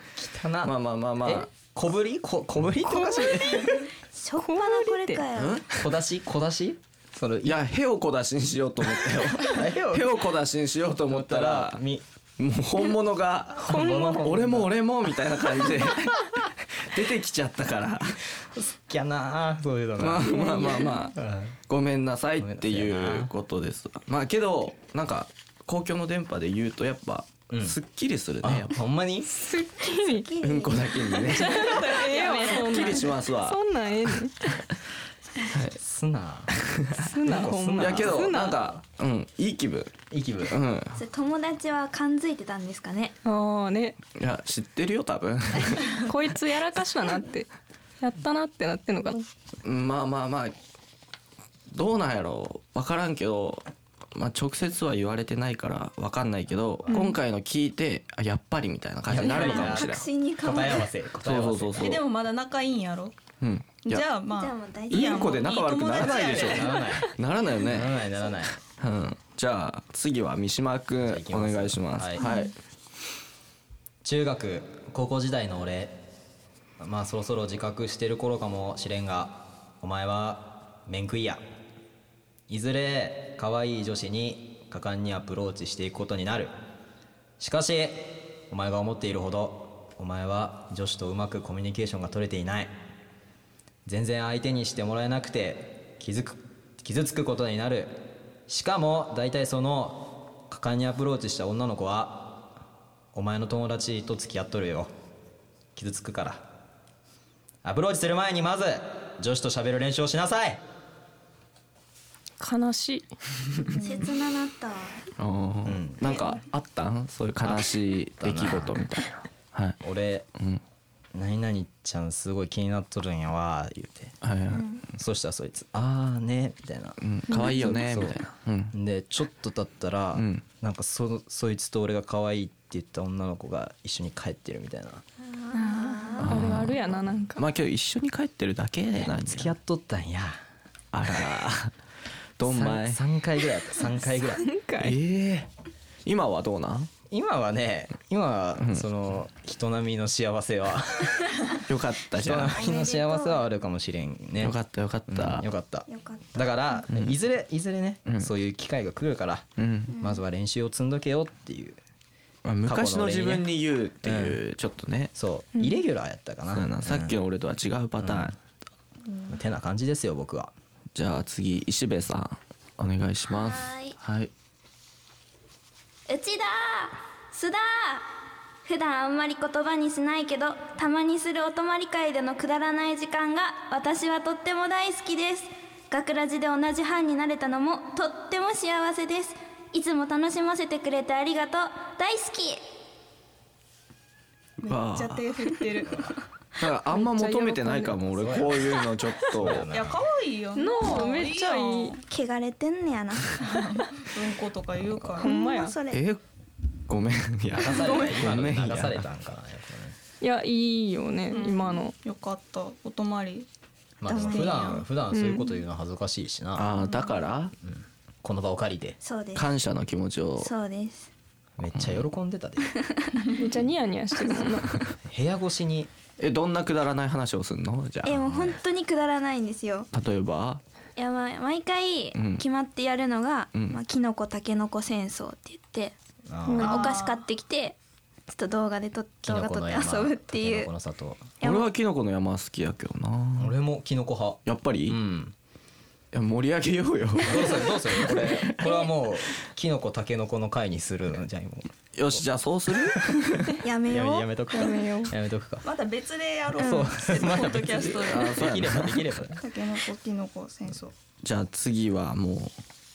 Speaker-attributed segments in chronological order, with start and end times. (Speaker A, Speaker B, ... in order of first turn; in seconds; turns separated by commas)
Speaker A: 0.1-3.9, Speaker B: 0.6-1.5, Speaker C: 2.8-3.7, Speaker D: 4.1-5.6, Speaker C: 4.4-5.2, Speaker B: 5.3-6.0, Speaker A: 5.8-7.6, Speaker B: 7.4-11.8, Speaker A: 9.4-10.3, Speaker A: 11.1-12.0, Speaker B: 12.4-18.2, Speaker A: 13.6-14.7, Speaker C: 13.6-14.2, Speaker A: 18.4-21.6, Speaker B: 20.0-21.1, Speaker D: 20.3-20.9, Speaker C: 20.4-20.7, Speaker B: 21.7-28.8, Speaker A: 22.4-23.3, Speaker A: 27.5-27.8, Speaker A: 28.4-29.3, Speaker C: 29.3-30.3, Speaker D: 29.8-31.9, Speaker B: 30.4-31.8, Speaker C: 31.2-34.6, Speaker E: 31.7-32.9, Speaker B: 32.6-33.6, Speaker B: 35.5-35.8, Speaker A: 35.8-36.5, Speaker B: 36.8-37.0, Speaker C: 37.0-38.5, Speaker A: 37.2-38.8, Speaker B: 37.8-39.9, Speaker A: 40.1-40.6, Speaker B: 40.5-41.0, Speaker D: 40.9-43.1, Speaker C: 43.2-44.0, Speaker B: 44.1-46.1, Speaker C: 46.0-47.5, Speaker C: 48.0-49.2, Speaker B: 49.6-50.5, Speaker B: 51.7-60.1, Speaker C: 56.9-57.2, Speaker A: 59.1-59.9, Speaker D: 59.1-60.9, Speaker A: 60.4-62.0, Speaker B: 61.2-62.0, Speaker E: 61.8-63.1, Speaker B: 63.4-64.0, Speaker E: 63.9-66.6, Speaker D: 64.3-65.4, Speaker B: 64.9-72.5, Speaker A: 65.9-67.1, Speaker D: 66.0-66.8, Speaker A: 67.6-68.6, Speaker A: 71.0-72.2, Speaker C: 72.2-72.5, Speaker A: 74.0-76.0, Speaker A: 76.8-81.4, Speaker A: 82.5-86.5, Speaker A: 87.4-92.7, Speaker A: 93.8-102.5, Speaker A: 103.1-104.9, Speaker A: 105.7-106.4, Speaker A: 107.6-110.6, Speaker C: 112.4-113.1, Speaker D: 113.7-115.0, Speaker B: 115.2-119.8, Speaker A: 115.7-116.3, Speaker A: 117.4-118.8, Speaker A: 119.8-120.3, Speaker B: 120.3-120.6, Speaker A: 121.1-124.2, Speaker B: 124.2-124.7, Speaker D: 124.5-124.8, Speaker A: 124.9-127.0, Speaker B: 127.0-128.7, Speaker C: 127.3-127.8, Speaker A: 127.5-128.2, Speaker A: 128.7-135.0, Speaker B: 130.1-130.4, Speaker D: 135.2-136.4, Speaker C: 135.5-137.4, Speaker B: 136.2-136.8, Speaker B: 137.3-139.6, Speaker A: 138.9-140.4, Speaker B: 140.9-141.7, Speaker B: 142.4-143.0, Speaker A: 142.4-144.5, Speaker C: 144.4-144.9, Speaker B: 144.8-145.5, Speaker B: 146.0-146.9, Speaker A: 147.1-151.6, Speaker B: 148.6-148.9, Speaker B: 151.7-152.6, Speaker A: 152.1-154.6, Speaker D: 152.5-153.5, Speaker B: 154.4-155.5, Speaker A: 155.1-159.4, Speaker D: 155.9-156.9, Speaker B: 156.9-157.2, Speaker B: 158.1-158.3, Speaker B: 159.6-159.9, Speaker D: 159.9-160.2, Speaker A: 160.0-161.8, Speaker B: 162.4-165.1, Speaker A: 162.6-163.5, Speaker A: 164.0-164.4, Speaker A: 165.1-167.1, Speaker B: 166.5-168.4, Speaker A: 168.0-168.3, Speaker A: 169.3-170.5, Speaker B: 170.9-174.3, Speaker D: 173.3-173.9, Speaker D: 176.1-178.1, Speaker D: 178.6-192.6, Speaker E: 194.6-196.1, Speaker B: 194.7-195.2, Speaker B: 196.6-199.7, Speaker C: 196.9-197.9, Speaker A: 198.1-198.6, Speaker A: 199.3-200.1, Speaker E: 199.7-201.9, Speaker C: 200.6-202.0, Speaker D: 202.0-203.6, Speaker E: 203.5-205.2, Speaker D: 205.1-206.0, Speaker C: 205.2-205.8, Speaker B: 205.9-206.2, Speaker B: 206.9-209.1, Speaker A: 207.5-210.0, Speaker C: 207.7-208.2, Speaker C: 210.2-211.9, Speaker E: 211.4-213.5, Speaker A: 214.0-216.7, Speaker D: 214.0-214.7, Speaker E: 214.1-214.8, Speaker C: 215.1-215.6, Speaker B: 216.6-217.5, Speaker E: 216.8-217.2, Speaker A: 217.6-219.0, Speaker D: 219.0-219.5, Speaker B: 219.3-220.5, Speaker D: 220.4-221.1, Speaker A: 221.6-222.8, Speaker B: 221.7-222.0, Speaker D: 222.7-223.3, Speaker C: 223.3-224.8, Speaker A: 225.0-225.9, Speaker B: 226.2-228.3, Speaker D: 228.0-229.9, Speaker A: 228.2-228.6, Speaker B: 229.9-230.6, Speaker D: 230.9-235.9, Speaker B: 232.1-232.4, Speaker B: 233.5-233.8, Speaker A: 236.3-236.8, Speaker C: 236.5-236.9, Speaker D: 236.5-237.8, Speaker E: 236.7-237.2, Speaker D: 238.3-240.7, Speaker A: 239.2-241.3, Speaker D: 241.4-241.7, Speaker B: 241.4-243.6, Speaker A: 243.4-245.3, Speaker B: 244.4-245.0, Speaker B: 246.1-248.7, Speaker A: 247.2-253.2, Speaker D: 248.6-248.9, Speaker B: 251.9-253.6, Speaker D: 253.6-254.3, Speaker A: 253.9-255.7, Speaker C: 254.5-255.1, Speaker E: 255.6-258.4, Speaker A: 256.5-259.4, Speaker B: 258.0-259.2, Speaker E: 259.4-260.9, Speaker B: 261.2-262.5